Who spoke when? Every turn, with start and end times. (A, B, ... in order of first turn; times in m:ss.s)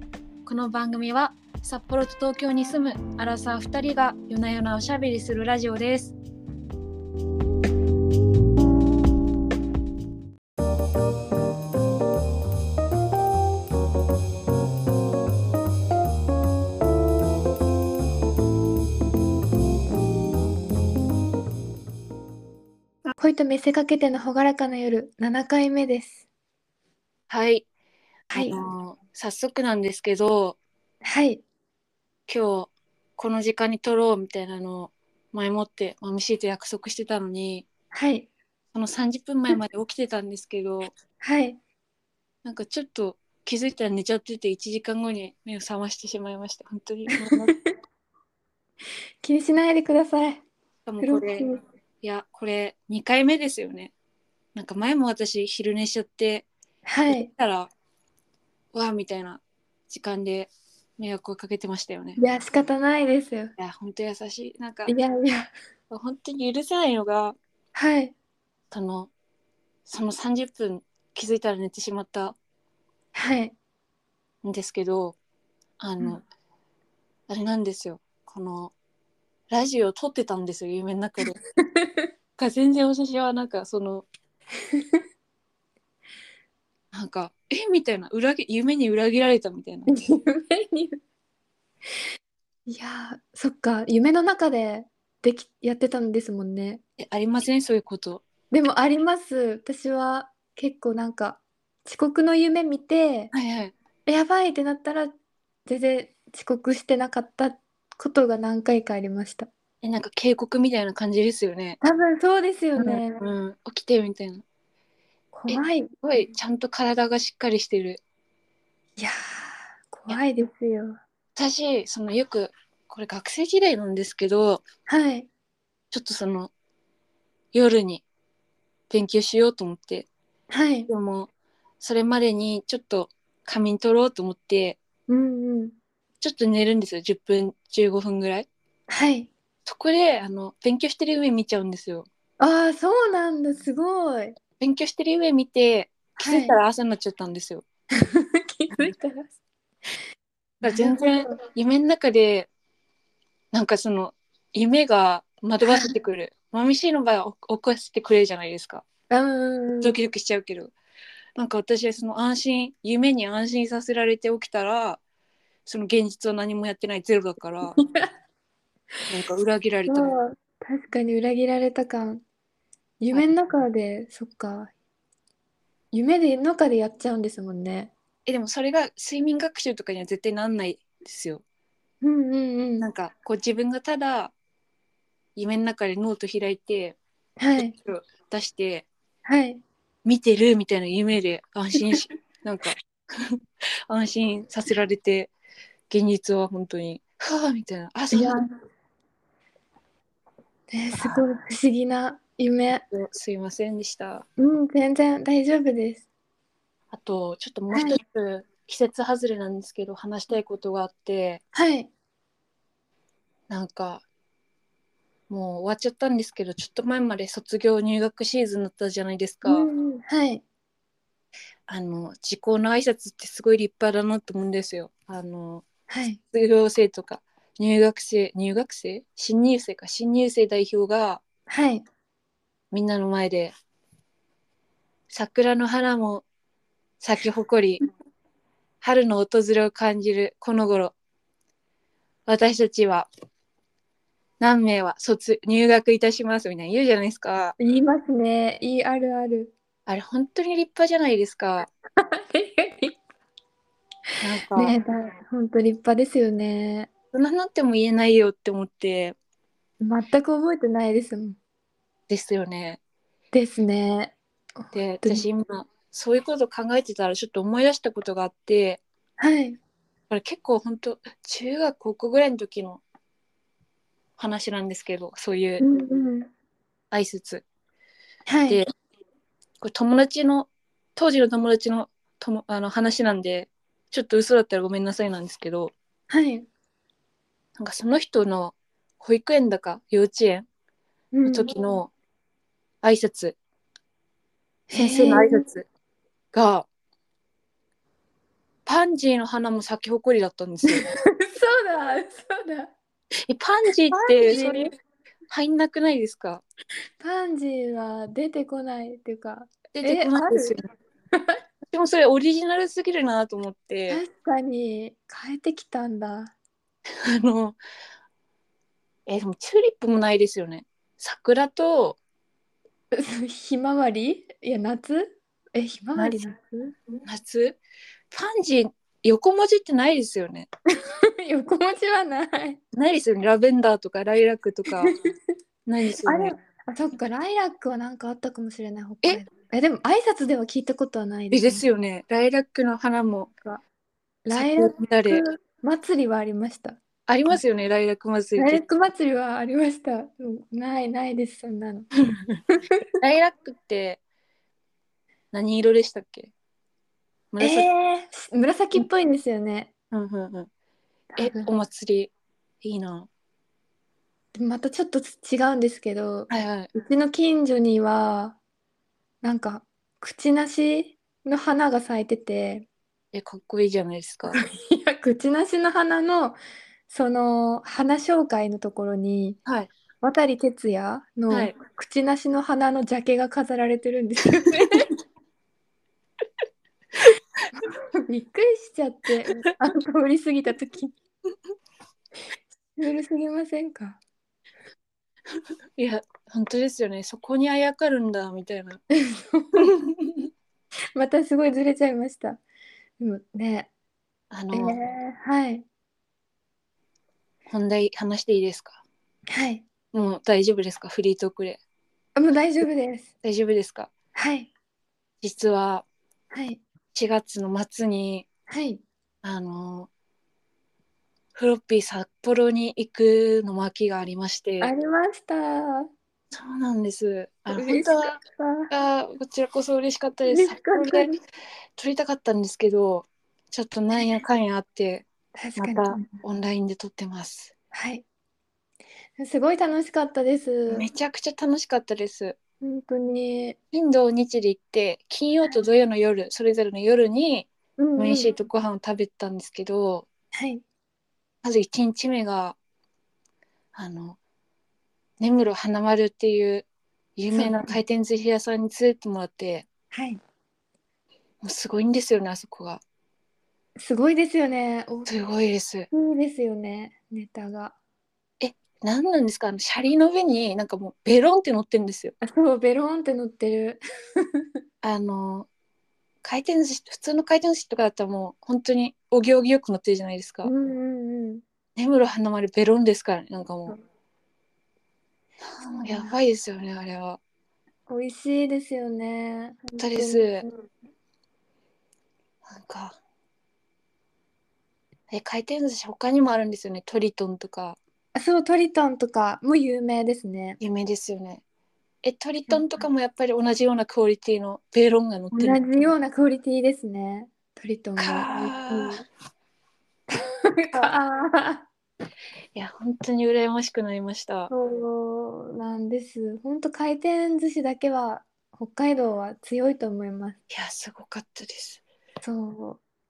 0:00.5-0:06.2 A
0:23.2-0:26.2 B
0:27.3-0:27.7 A
0:28.3-0:28.6 B
0:28.3-0:30.6 A
0:31.0-0:31.4 B
0:32.3-0:37.7 A
0:37.9-0:38.3 B
0:38.7-0:40.9 A
0:41.2-0:41.6 B
0:42.4-0:47.6 A
0:47.1-0:47.7 B
0:49.2-0:50.4 B
0:50.9-0:51.5 A
0:51.0-0:51.6 B
0:52.0-0:53.9 A
0:54.6-0:56.5 A
0:56.9-0:57.3 B
0:57.1-0:57.7 A
0:58.7-1:02.2 A
1:02.2-1:03.5 B
1:03.6-1:05.0 A
1:04.9-1:05.5 B
1:05.9-1:07.4 A
1:07.8-1:08.1 B
1:08.7-1:09.1 A
1:09.9-1:12.4 A
1:13.1-1:13.6 B
1:14.4-1:15.2 A
1:15.8-1:16.2 A
1:17.3-1:18.7 A
1:19.5-1:21.4 A
1:21.6-1:22.1 B
1:22.4-1:24.1 A
1:24.7-1:25.0 B
1:26.9-1:30.0 A
1:29.9-1:31.0 B
1:32.7-1:36.8 B
1:37.0-1:38.2 A
1:38.5-1:43.3 B
1:43.3-1:43.7 A
1:44.1-1:45.1 B
1:45.7-1:49.5 B
1:49.8-1:51.8 A
1:51.8-1:53.2 B
1:52.8-1:54.4 A
1:55.3-1:55.9 B
1:55.5-1:58.0 A
1:59.0-2:01.0 B
2:01.4-2:04.6 A
2:04.9-2:05.3 B
2:05.9-2:06.5 A
2:07.5-2:08.0 A
2:08.9-2:10.1 A
2:10.5-2:10.9 B
2:10.9-2:11.3 A
2:11.8-2:14.8 A
2:15.1-2:15.8 B
2:16.2-2:18.5 A
2:18.9-2:19.3 B
2:19.7-2:22.1 A
2:22.4-2:24.4 B
2:24.6-2:27.6 A
2:26.2-2:26.6 B
2:28.0-2:29.3 B
2:30.6-2:31.3 B
2:30.6-2:32.5 A
2:33.5-2:38.8 A
2:35.6-2:35.9 B
2:39.1-2:40.0 B
2:39.8-2:40.7 A
2:41.4-2:45.0 A
2:45.7-2:47.8 A
2:47.8-2:48.1 B
2:49.1-2:50.1 A
2:49.9-2:52.2 B
2:53.0-2:54.7 B
2:55.9-2:57.9 B
2:58.3-3:01.4 A
3:02.0-3:02.9 B
3:02.8-3:04.3 A
3:05.4-3:07.0 A
3:07.4-3:07.7 B
3:07.6-3:08.9 A
3:09.3-3:09.6 B
3:10.0-3:13.3 A
3:13.9-3:15.3 A
3:15.9-3:18.4 A
3:18.1-3:18.4 B
3:20.7-3:22.8 B
3:21.0-3:21.2 A
3:22.9-3:24.2 A
3:24.4-3:26.1 B
3:26.9-3:31.4 A
3:27.7-3:28.0 B
3:31.5-3:31.9 B
3:33.5-3:34.0 A
3:35.3-3:39.7 A
3:39.4-3:40.4 B
3:41.7-3:45.7 A
3:45.9-3:46.2 B
3:46.3-3:51.2 A
3:51.5-3:51.8 B
3:52.7-3:53.5 A
3:55.1-3:56.2 A
3:57.0-3:57.8 A
3:58.8-4:00.9 A
4:02.3-4:03.1 A
4:04.4-4:07.6 A
4:07.6-4:09.5 B
4:09.9-4:11.7 A
4:12.0-4:13.0 B
4:14.2-4:14.8 A
4:14.5-4:16.9 B
4:17.1-4:19.2 A
4:19.8-4:21.4 B
4:22.1-4:22.8 A
4:23.3-4:24.2 B
4:24.7-4:25.3 B
4:24.7-4:28.8 A
4:29.2-4:29.6 B
4:30.1-4:32.8 A
4:34.2-4:35.6 A
4:35.6-4:36.3 B
4:36.9-4:37.4 A
4:38.3-4:38.6 B
4:39.6-4:45.7 A
4:46.1-4:46.5 B
4:47.6-4:50.5 A
4:51.1-4:51.5 B
4:51.3-4:51.9 A
4:52.8-4:53.4 A
4:54.7-4:55.4 B
4:54.7-4:55.7 A
4:56.3-4:56.7 A
4:58.7-5:00.9 A
5:00.7-5:02.7 B
5:03.3-5:04.7 A
5:03.9-5:04.7 B
5:05.3-5:06.4 A
5:07.0-5:10.6 B
5:09.7-5:10.6 A
5:11.7-5:14.0 A
5:13.9-5:16.3 B
5:17.0-5:17.6 A
5:19.1-5:22.0 A
5:22.9-5:26.8 B
5:27.0-5:27.6 A
5:28.1-5:30.5 A
5:30.8-5:32.6 B
5:32.7-5:34.9 A
5:34.8-5:35.1 B
5:35.7-5:36.4 A
5:36.0-5:41.6 B
5:41.3-5:43.3 A
5:44.2-5:47.4 B
5:44.3-5:45.2 A
5:47.1-5:48.6 A
5:48.4-5:51.9 B
5:52.5-5:52.9 B
5:53.0-5:54.0 A
5:55.3-5:56.3 A
5:57.3-5:57.7 A
5:57.4-5:59.7 B
5:59.9-6:00.5 A
6:01.1-6:01.5 B
6:01.2-6:02.1 A
6:02.6-6:03.1 A
6:04.3-6:08.4 B
6:06.3-6:06.7 A
6:09.2-6:12.7 B
6:13.1-6:14.4 A
6:14.3-6:16.4 B
6:16.9-6:19.4 B
6:19.5-6:19.7 A
6:20.0-6:24.9 B
6:21.3-6:21.5 A
6:27.5-6:30.9 B
6:32.8-6:34.0 B
6:35.8-6:38.8 A
6:39.0-6:39.8 B
6:39.6-6:40.3 A
6:41.0-6:42.4 B
6:43.0-6:43.7 B
6:44.3-6:44.8 A
6:44.5-6:45.6 B
6:47.5-6:48.8 A
6:49.3-6:49.6 B
6:49.9-6:51.6 A
6:52.2-6:53.1 B
6:53.2-6:53.9 A
6:54.2-6:54.5 B
6:55.2-6:55.8 A
6:56.3-6:56.6 B
6:56.9-6:58.3 A
6:58.5-6:58.8 B
6:59.2-6:59.9 A
7:01.4-7:04.7 A
7:04.6-7:05.9 B
7:06.3-7:08.2 A
7:07.5-7:08.7 B
7:08.7-7:11.1 A
7:10.3-7:11.2 B
7:11.8-7:17.5 A
7:15.4-7:16.2 B
7:17.7-7:18.0 B
7:19.2-7:20.9 B
7:20.7-7:22.4 A
7:22.6-7:23.6 B
7:23.7-7:30.1 A
7:27.8-7:28.3 B
7:30.4-7:30.6 B
7:31.4-7:32.6 A
7:33.8-7:34.2 A
7:35.2-7:39.7 A
7:37.3-7:37.8 B
7:39.9-7:40.2 B
7:41.4-7:42.8 A
7:43.8-7:45.1 B
7:45.1-7:45.9 A
7:45.9-7:47.8 B
7:48.4-7:52.2 A
7:52.2-7:54.4 B
7:54.8-7:55.5 A
7:56.2-8:00.5 A
8:00.4-8:01.4 B
8:01.8-8:03.8 A
8:05.4-8:07.2 A
8:05.8-8:06.2 B
8:07.9-8:10.6 B
8:09.8-8:10.4 A
8:12.5-8:13.0 A
8:15.1-8:17.8 A
8:18.2-8:20.6 B
8:20.6-8:21.4 A
8:22.0-8:25.9 A
8:25.3-8:29.0 B
8:28.0-8:29.0 A
8:30.1-8:31.7 B
8:32.6-8:34.5 A
8:34.5-8:40.4 B
8:40.5-8:41.8 A
8:42.2-8:42.8 B